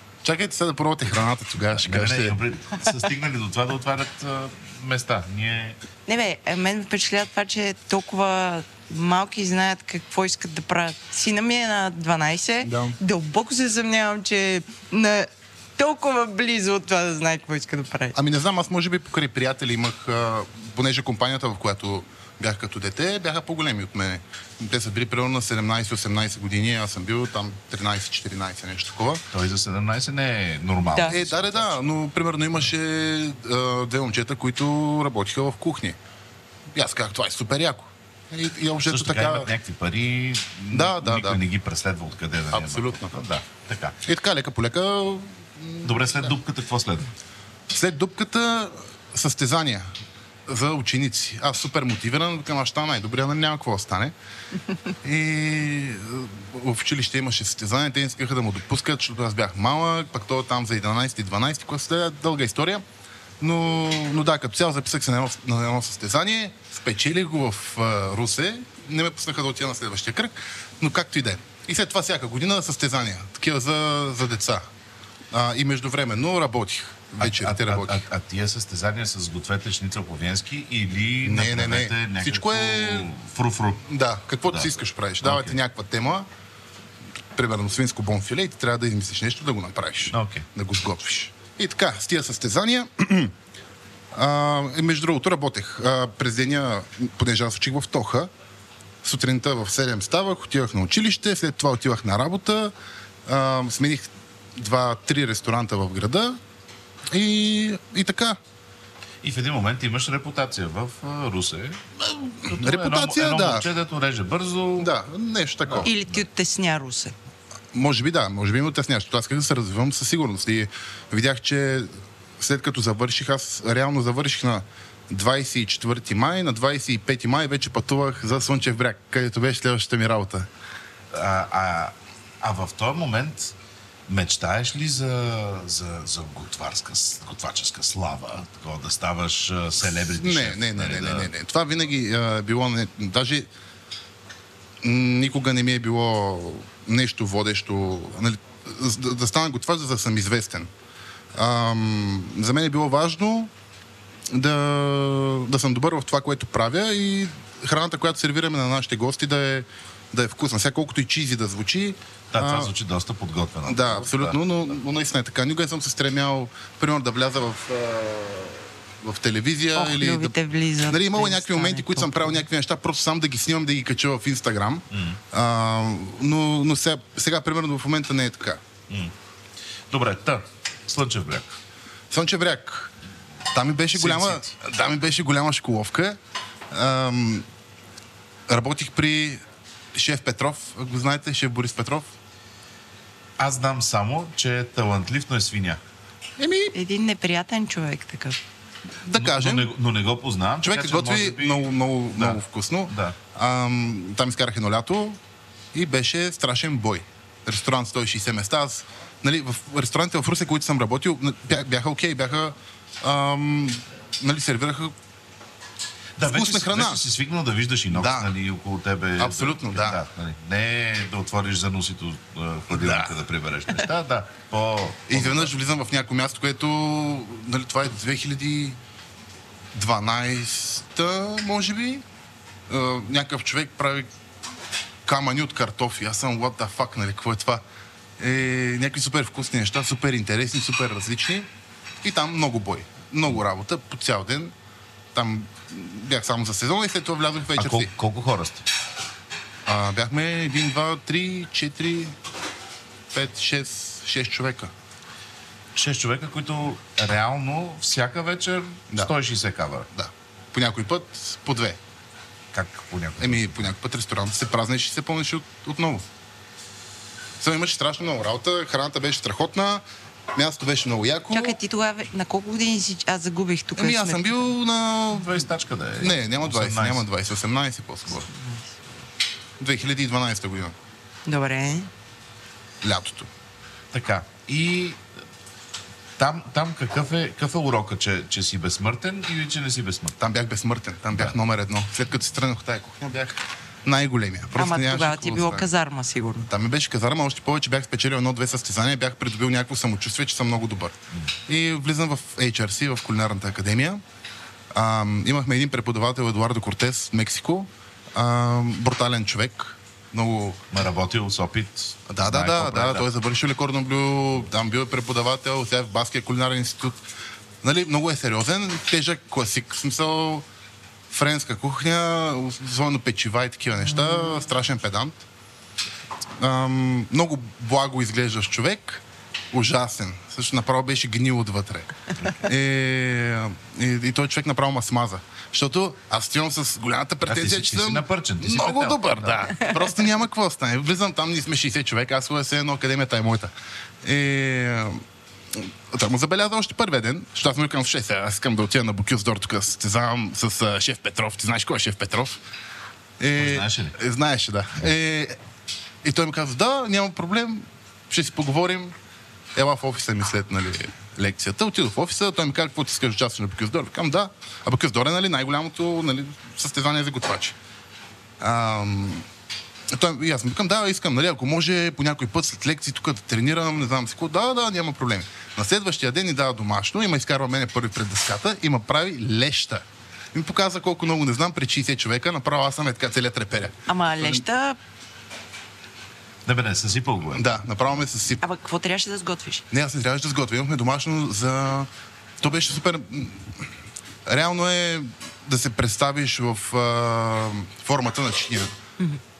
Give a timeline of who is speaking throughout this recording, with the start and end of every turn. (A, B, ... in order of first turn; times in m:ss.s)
0:00.2-0:02.4 A
0:01.7-0:05.8 B
0:06.0-0:18.2 C
0:12.6-0:13.0 A
0:18.1-0:29.2 A
0:29.3-0:31.8 B
0:31.0-0:36.0 A
0:36.7-0:39.5 A
0:38.8-0:44.0 B
0:40.7-0:41.4 A
0:42.5-0:43.2 A
0:44.0-0:46.4 A
0:45.8-0:47.1 B
0:47.7-0:49.9 A
0:50.5-0:54.1 A
0:55.0-1:02.8 A
1:03.4-1:14.6 A
1:15.3-1:18.0 A
1:17.2-1:23.8 B
1:21.2-1:23.1 A
1:23.9-1:26.3 A
1:24.5-1:25.6 B
1:27.3-1:33.3 A
1:30.1-1:30.5 B
1:34.1-1:38.3 A
1:39.0-1:42.7 A
1:43.2-1:46.4 A
1:47.1-1:48.4 A
1:49.2-1:54.9 B
1:52.4-1:53.6 A
1:54.8-1:55.9 A
1:55.7-1:56.2 B
1:55.8-1:57.1 C
1:57.7-2:10.5 A
2:11.1-2:13.5 B
2:14.1-2:21.3 B
2:20.1-2:23.5 A
2:24.8-2:30.7 A
2:31.3-2:33.5 A
2:34.3-2:42.7 A
2:42.3-2:44.4 B
2:43.6-2:58.6 A
2:49.7-2:52.4 C
2:54.9-2:55.2 B
2:59.9-3:01.5 B
3:02.1-3:02.9 A
3:03.5-3:06.2 A
3:03.9-3:04.5 B
3:06.7-3:07.4 A
3:08.5-3:09.4 A
3:09.9-3:12.1 A
3:13.4-3:15.8 B
3:16.4-3:16.7 A
3:16.7-3:18.4 C
3:19.0-3:19.7 A
3:19.1-3:23.2 B
3:20.6-3:25.2 A
3:25.7-3:34.9 A
3:36.2-3:45.5 B
3:36.2-3:37.0 A
3:37.9-3:38.3 A
3:39.2-3:40.0 A
3:42.7-3:43.2 A
3:45.1-3:48.8 A
3:49.7-3:52.0 A
3:52.7-3:54.1 A
3:55.0-3:57.6 A
3:58.2-4:01.5 A
4:02.0-4:04.5 A
4:05.1-4:07.9 A
4:07.6-4:08.6 B
4:09.6-4:12.2 A
4:13.1-4:14.7 A
4:15.7-4:19.9 B
4:19.9-4:21.8 A
4:22.5-4:23.7 B
4:23.2-4:26.0 A
4:27.4-4:29.8 A
4:30.3-4:31.6 A
4:31.3-4:34.4 C
4:33.8-4:35.3 A
4:35.1-4:37.1 B
4:36.0-4:38.3 A
4:38.3-4:38.6 C
4:39.6-4:40.8 A
4:41.2-4:41.9 C
4:42.8-4:43.3 A
4:43.9-4:45.0 B
4:46.2-4:50.1 B
4:50.2-4:55.7 A
4:54.5-4:56.5 C
4:56.5-5:01.0 A
5:01.5-5:04.0 A
5:04.7-5:10.6 A
5:10.7-5:13.1 B
5:12.1-5:17.0 A
5:17.6-5:20.4 A
5:21.1-5:25.2 A
5:26.4-5:45.0 A
5:37.2-5:39.6 B
5:45.5-5:52.4 A
5:53.2-5:55.4 A
5:53.4-5:54.0 B
5:56.0-5:58.9 A
5:59.5-6:07.6 A
6:08.4-6:09.2 A
6:09.9-6:24.4 A
6:23.9-6:24.8 C
6:26.4-6:27.5 B
6:27.3-6:28.4 A
6:28.4-6:29.6 C
6:29.7-6:31.9 A
6:32.4-6:33.7 A
6:34.2-6:38.7 A